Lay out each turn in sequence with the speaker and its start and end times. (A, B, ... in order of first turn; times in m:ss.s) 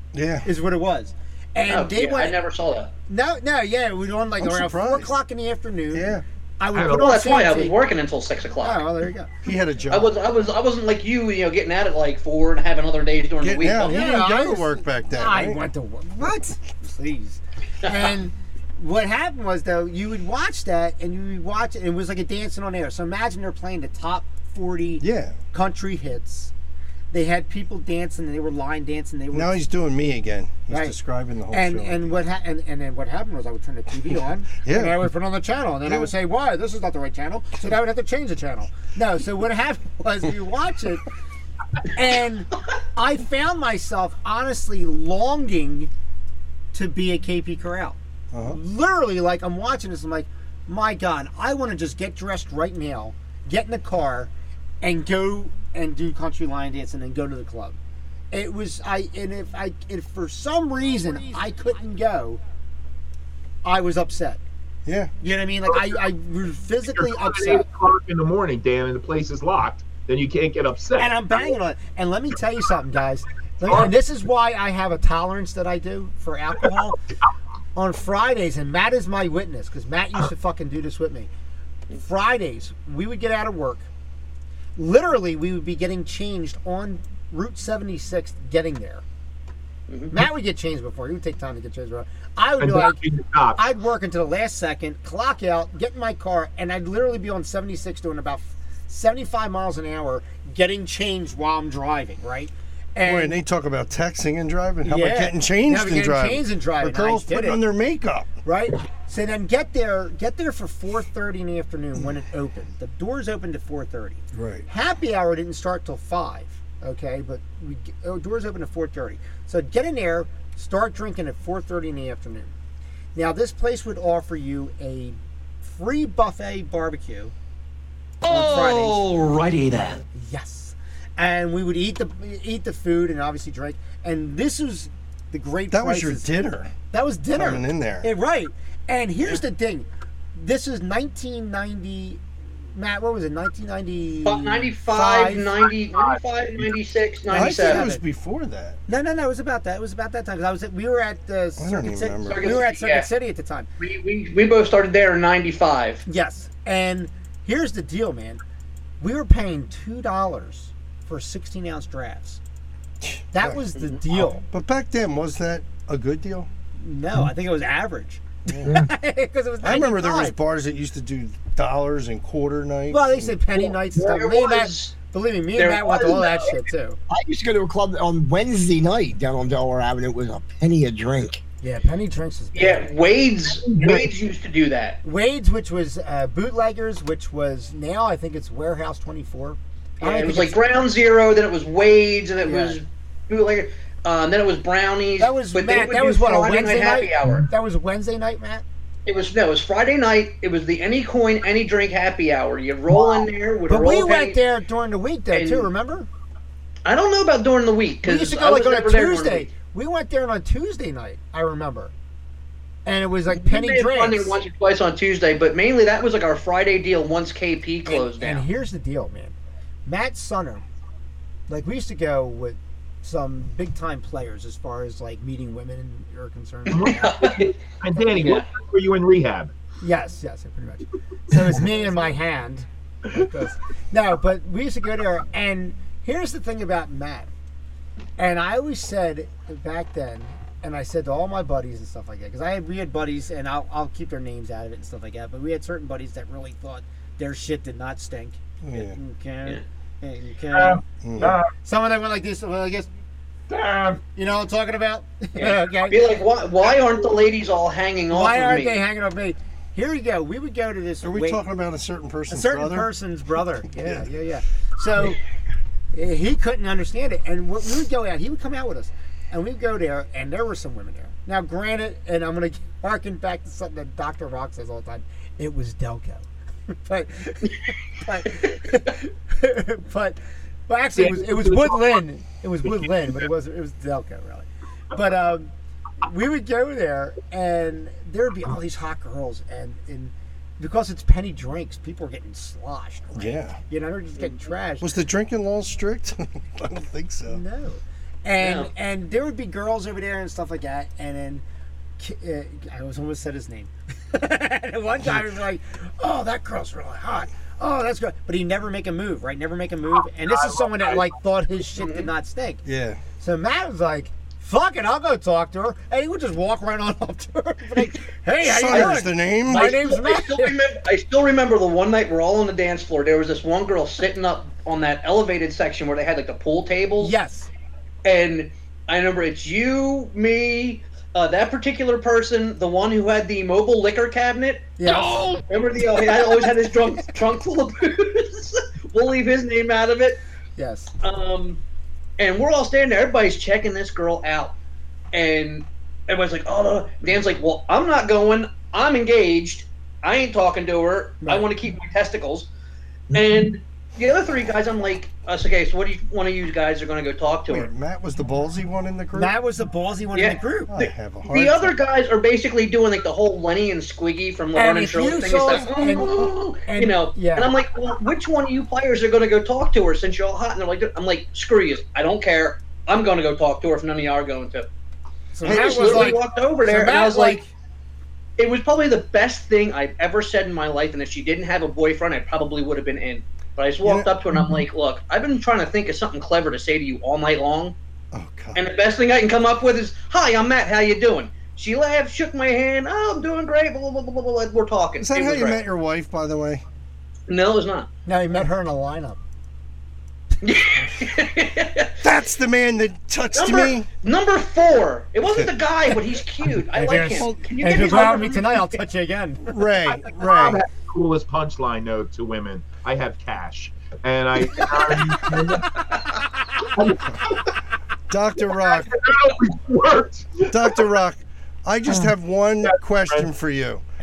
0:00.1-0:00.5 A
0:00.4-0:02.4 B
0:01.7-0:02.9 C
0:03.1-0:07.8 B
0:04.4-0:05.2 A
0:05.9-0:06.2 A
0:06.7-0:07.1 D
0:06.9-0:08.8 C
0:08.6-0:09.3 B
0:09.4-0:10.2 A
0:09.9-0:14.0 C
0:13.4-0:15.6 A
0:13.7-0:26.5 B
0:25.0-0:25.4 A
0:27.1-0:29.6 B
0:29.3-0:32.1 A
0:30.7-0:31.0 B
0:31.5-0:41.0 B
0:34.6-0:35.1 A
0:41.8-0:45.9 B
0:46.7-0:54.3 B
0:48.3-0:48.6 A
0:54.8-0:57.8 B
0:58.3-1:02.4 B
1:03.6-1:04.4 B
1:04.9-1:05.1 A
1:05.2-1:07.7 B
1:06.9-1:11.2 D
1:11.0-1:17.0 B
1:13.7-1:13.9 D
1:17.8-1:21.3 B
1:22.0-1:23.9 B
1:24.8-1:29.0 B
1:29.9-1:30.1 C
1:30.1-1:33.0 B
1:32.6-1:33.6 D
1:33.6-1:43.4 B
1:43.0-1:48.3 A
1:44.8-1:47.6 B
1:48.4-2:02.5 B
1:54.3-1:54.7 A
2:03.2-2:07.3 B
2:08.2-2:10.0 C
2:08.2-2:09.1 B
2:10.1-2:16.3 B
2:15.7-2:16.7 A
2:16.9-2:22.2 B
2:17.3-2:18.1 A
2:22.8-2:25.7 B
2:24.2-2:27.9 C
2:25.9-2:26.2 D
2:27.3-2:28.8 A
2:27.3-2:28.0 B
2:28.9-2:33.7 B
2:31.6-2:32.6 A
2:32.2-2:33.1 C
2:33.8-2:36.0 C
2:36.1-2:38.4 B
2:39.0-2:42.4 B
2:43.0-2:43.6 A
2:43.3-2:44.4 B
2:44.4-2:46.5 A
2:46.8-2:50.4 B
2:48.5-2:48.8 A
2:48.6-2:48.9 E
2:49.6-2:53.4 A
2:52.9-2:57.0 B
2:53.6-2:55.0 C
2:55.6-2:56.6 C
2:57.1-3:01.4 E
3:01.6-3:02.9 B
3:02.5-3:05.0 C
3:03.7-3:04.1 E
3:05.0-3:10.6 B
3:10.0-3:17.5 C
3:12.4-3:12.8 B
3:15.2-3:18.6 B
3:19.1-3:24.4 C
3:23.7-3:26.1 B
3:25.3-3:25.7 C
3:26.8-3:29.5 C
3:28.0-3:31.9 B
3:32.9-3:34.4 B
3:33.3-3:38.5 C
3:37.9-3:39.4 B
3:39.9-3:40.6 B
3:41.5-3:47.4 B
3:46.7-3:47.5 C
3:46.7-3:49.5 D
3:48.0-3:48.4 B
3:48.2-3:48.5 C
3:49.8-3:57.3 B
3:58.2-4:12.9 B
4:08.6-4:09.0 A
4:10.6-4:11.4 D
4:11.0-4:11.4 A
4:13.5-4:14.0 D
4:14.2-4:16.2 B
4:15.4-4:18.8 C
4:18.1-4:21.4 B
4:21.0-4:22.9 A
4:22.3-4:25.2 B
4:23.7-4:24.1 A
4:25.9-4:45.5 B
4:41.0-4:42.0 D
4:42.7-4:43.2 D
4:46.0-4:55.0 B
4:53.1-4:53.6 A
4:54.8-4:57.4 A
4:57.3-5:01.4 B
4:58.4-4:58.7 C
5:02.0-5:12.6 B
5:05.0-5:05.3 A
5:10.3-5:11.1 D
5:11.8-5:12.1 C
5:12.6-5:13.0 A
5:13.2-5:20.6 B
5:18.4-5:19.8 A
5:18.7-5:27.2 C
5:27.0-5:27.5 B
5:28.0-5:40.2 C
5:34.8-5:36.4 B
5:40.6-5:40.9 B
5:41.0-5:41.6 C
5:42.2-5:44.6 C
5:45.1-5:52.5 C
5:51.2-5:51.5 B
5:53.1-5:53.4 E
5:53.1-5:57.7 C
5:57.5-5:59.3 A
5:59.2-6:00.7 B
6:00.1-6:14.7 C
6:00.7-6:01.8 A
6:04.6-6:07.6 B
6:15.3-6:17.5 B
6:15.4-6:17.4 C
6:15.4-6:16.2 A
6:18.4-6:27.8 C
6:23.8-6:24.1 A
6:28.1-6:28.6 A
6:28.6-6:35.6 C
6:35.0-6:36.6 A
6:37.3-6:37.9 C
6:38.1-6:39.2 B
6:40.4-6:42.0 C
6:42.0-6:43.9 A
6:43.3-6:48.8 C
6:45.3-6:45.5 A
6:46.7-6:48.3 A
6:46.8-6:49.6 B
6:49.5-6:50.6 A
6:50.2-6:55.8 D
6:56.8-6:57.4 D
6:58.1-6:59.0 A
6:58.7-7:00.8 D
7:00.5-7:03.8 A
7:02.6-7:03.3 D